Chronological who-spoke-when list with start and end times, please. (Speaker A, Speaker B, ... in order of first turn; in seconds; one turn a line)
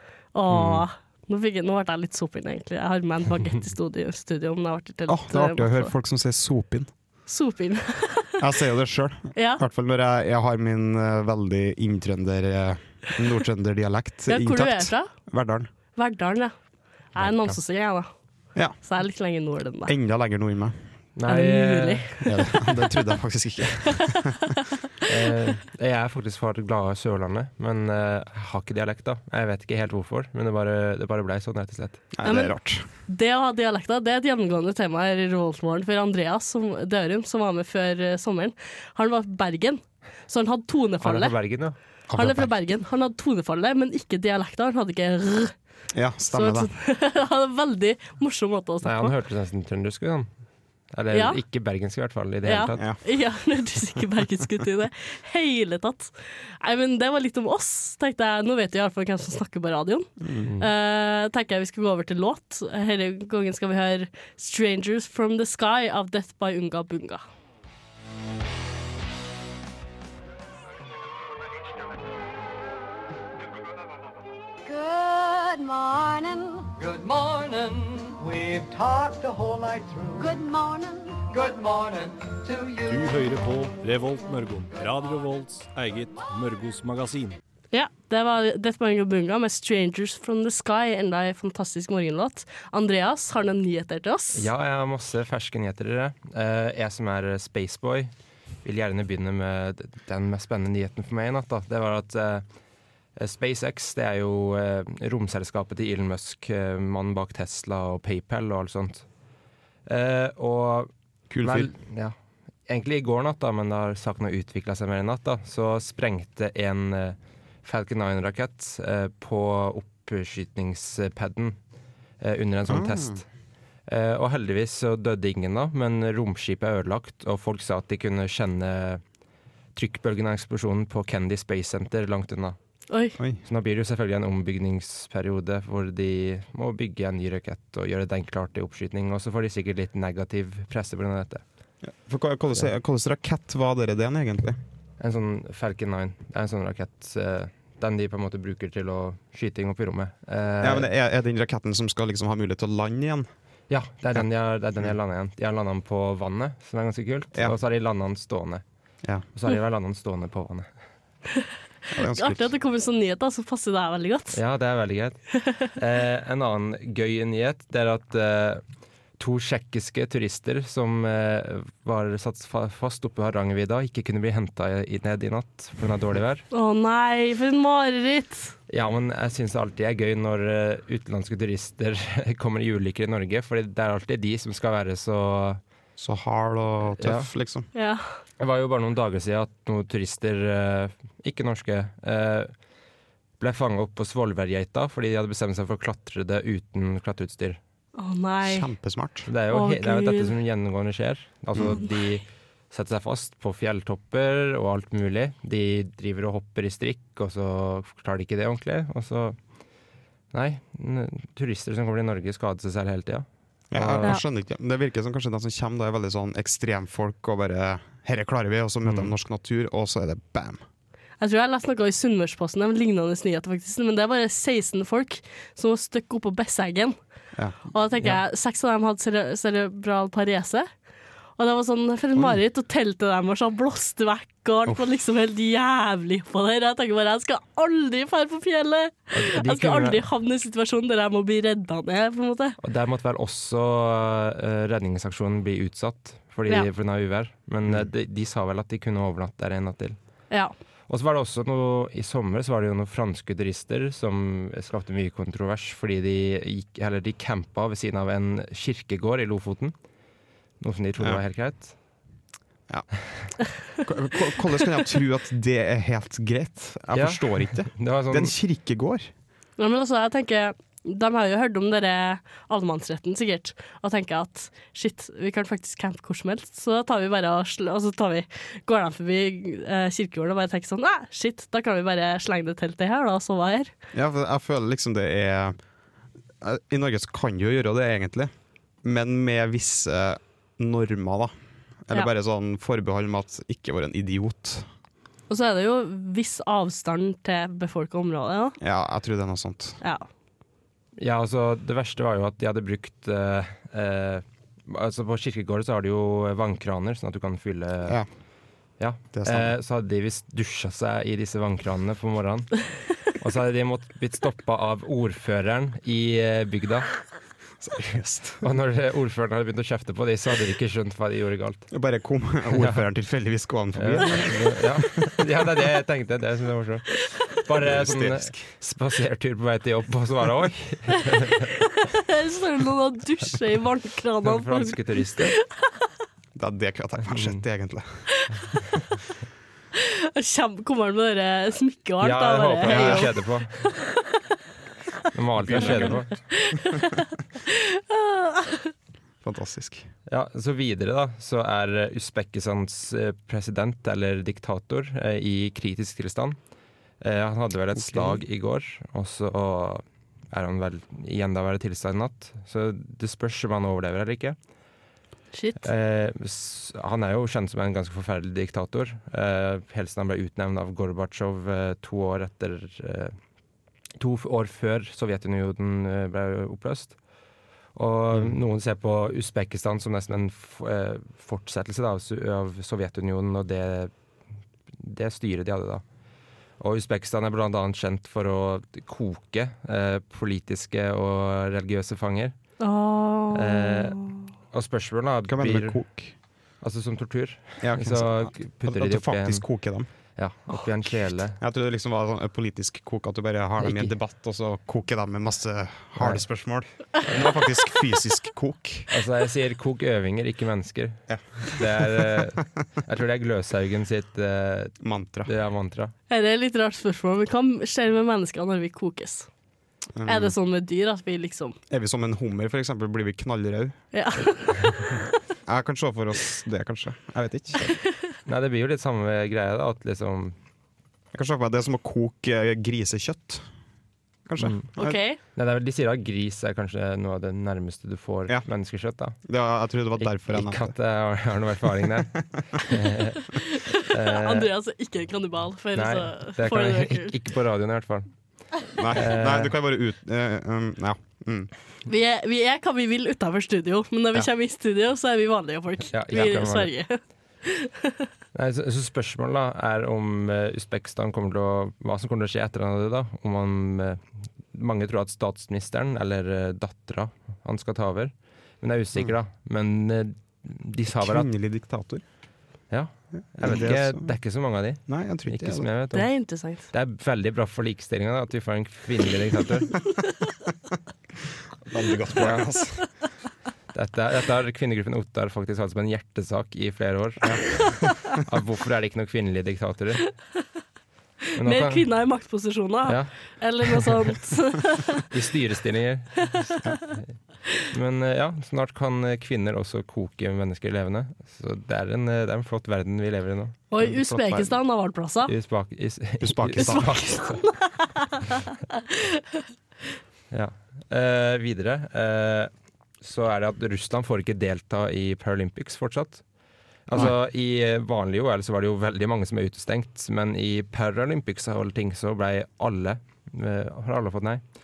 Speaker A: 0.3-5.9
Speaker B: 5.1-6.9
Speaker A: 7.3-8.4
Speaker B: 8.4-15.7
Speaker A: 9.3-9.6
Speaker A: 14.3-15.1
Speaker A: 15.9-16.5
Speaker A: 17.1-18.1
Speaker C: 17.2-17.6
Speaker A: 18.8-19.9
Speaker B: 19.9-20.8
Speaker C: 21.2-22.2
Speaker A: 21.3-22.3
Speaker B: 22.2-24.6
Speaker C: 25.1-32.1
Speaker B: 32.1-32.9
Speaker A: 32.2-32.5
Speaker A: 33.1-41.4
Speaker C: 41.0-41.8
Speaker B: 42.1-42.5
Speaker A: 42.2-45.5
Speaker B: 45.9-46.7
Speaker A: 46.3-49.1
Speaker C: 48.8-50.3
Speaker C: 50.9-52.9
Speaker A: 51.1-51.4
Speaker A: 52.5-67.2
Speaker B: 60.2-60.5
Speaker D: 74.6-76.7
Speaker E: 76.8-80.2
Speaker D: 80.2-81.3
Speaker E: 81.3-83.0
Speaker F: 82.9-87.4
Speaker A: 87.7-94.5
Speaker C: 94.3-98.1
Speaker C: 98.6-102.4
Speaker C: 103.2-109.1
Speaker C: 109.9-110.9
Speaker B: 111.3-111.7
Speaker C: 111.4-112.1
Speaker C: 112.7-121.6
Speaker C: 122.2-123.2
Speaker B: 122.7-123.2
Speaker C: 123.9-129.0
Speaker C: 129.8-132.6
Speaker A: 132.9-133.2
Speaker B: 133.2-133.4
Speaker C: 133.4-141.4
Speaker B: 141.8-144.6
Speaker C: 145.0-150.9
Speaker B: 150.6-153.3
Speaker C: 153.7-158.6
Speaker C: 159.3-160.7
Speaker B: 161.9-162.5
Speaker A: 162.0-164.4
Speaker C: 164.3-168.6
Speaker C: 169.2-176.4
Speaker A: 176.5-178.5
Speaker C: 178.7-185.6
Speaker B: 186.0-187.7
Speaker C: 187.0-187.3
Speaker A: 187.8-188.1
Speaker C: 188.4-192.5
Speaker C: 193.4-197.6
Speaker A: 197.9-198.7
Speaker B: 198.4-199.3
Speaker C: 199.3-209.4
Speaker A: 199.5-200.3
Speaker C: 210.3-214.2
Speaker B: 213.7-220.6
Speaker C: 218.9-219.1
Speaker A: 221.2-227.0
Speaker B: 227.3-227.6
Speaker A: 227.7-230.7
Speaker A: 231.4-242.6
Speaker C: 239.1-240.0
Speaker C: 242.6-250.0
Speaker C: 250.9-259.7
Speaker C: 260.6-261.7
Speaker B: 262.7-262.9
Speaker B: 263.7-269.1
Speaker C: 266.9-268.3
Speaker A: 269.6-283.7
Speaker B: 283.9-285.6
Speaker B: 286.4-288.3
Speaker B: 288.8-291.3
Speaker B: 291.9-294.7
Speaker A: 295.3-298.6
Speaker B: 298.6-299.8
Speaker A: 299.8-300.1
Speaker C: 301.0-308.0
Speaker C: 308.8-316.9
Speaker B: 309.1-309.5
Speaker B: 317.6-318.4
Speaker C: 318.4-321.7
Speaker B: 321.7-324.9
Speaker C: 322.5-322.8
Speaker C: 323.8-331.5
Speaker B: 327.6-328.5
Speaker A: 331.9-335.6
Speaker C: 334.2-335.3
Speaker B: 336.4-338.1
Speaker C: 337.1-337.4
Speaker A: 339.8-343.7
Speaker C: 342.0-343.5
Speaker B: 342.7-343.1
Speaker C: 345.1-346.1
Speaker B: 345.4-346.0
Speaker A: 345.6-348.7
Speaker B: 349.2-349.9
Speaker C: 350.1-356.4
Speaker C: 357.0-364.4
Speaker B: 357.8-358.2
Speaker A: 365.3-365.7
Speaker C: 365.6-373.2
Speaker C: 374.0-376.9
Speaker C: 377.8-383.9
Speaker B: 378.1-378.4
Speaker C: 384.8-385.8
Speaker C: 386.6-392.3
Speaker A: 392.6-394.2
Speaker C: 393.3-395.8
Speaker B: 395.3-396.1
Speaker C: 396.6-399.4
Speaker B: 397.6-399.9
Speaker C: 400.2-401.4
Speaker B: 401.4-408.9
Speaker C: 403.6-403.9
Speaker C: 406.0-406.2
Speaker C: 408.9-415.9
Speaker B: 411.1-412.2
Speaker B: 414.8-415.3
Speaker A: 416.1-419.3
Speaker B: 419.9-420.3
Speaker A: 420.1-421.6
Speaker B: 421.7-423.8
Speaker A: 423.9-424.9
Speaker B: 425.4-427.8
Speaker C: 428.2-430.3
Speaker B: 431.1-433.4
Speaker B: 434.3-435.0
Speaker C: 434.4-434.7
Speaker A: 434.8-435.2
Speaker C: 435.2-439.2
Speaker B: 439.2-440.7
Speaker C: 440.0-443.4
Speaker A: 443.3-447.2
Speaker C: 443.9-444.5
Speaker C: 445.8-448.1
Speaker B: 448.8-451.5
Speaker C: 448.9-449.5
Speaker A: 451.9-458.1
Speaker C: 455.9-456.7
Speaker C: 458.3-471.3
Speaker B: 470.9-472.0
Speaker C: 472.7-479.8
Speaker B: 473.4-474.1
Speaker B: 474.9-475.7
Speaker A: 475.9-476.7
Speaker B: 481.7-482.9
Speaker C: 482.2-482.6
Speaker C: 483.7-490.0
Speaker B: 487.2-488.2
Speaker C: 491.4-491.9
Speaker A: 491.4-495.0
Speaker C: 492.9-493.9
Speaker C: 495.1-497.1
Speaker C: 497.7-503.6
Speaker A: 503.7-505.3
Speaker B: 503.8-504.6
Speaker C: 505.3-507.4
Speaker B: 506.2-507.2
Speaker A: 506.6-509.4
Speaker C: 510.3-516.2
Speaker C: 516.9-524.4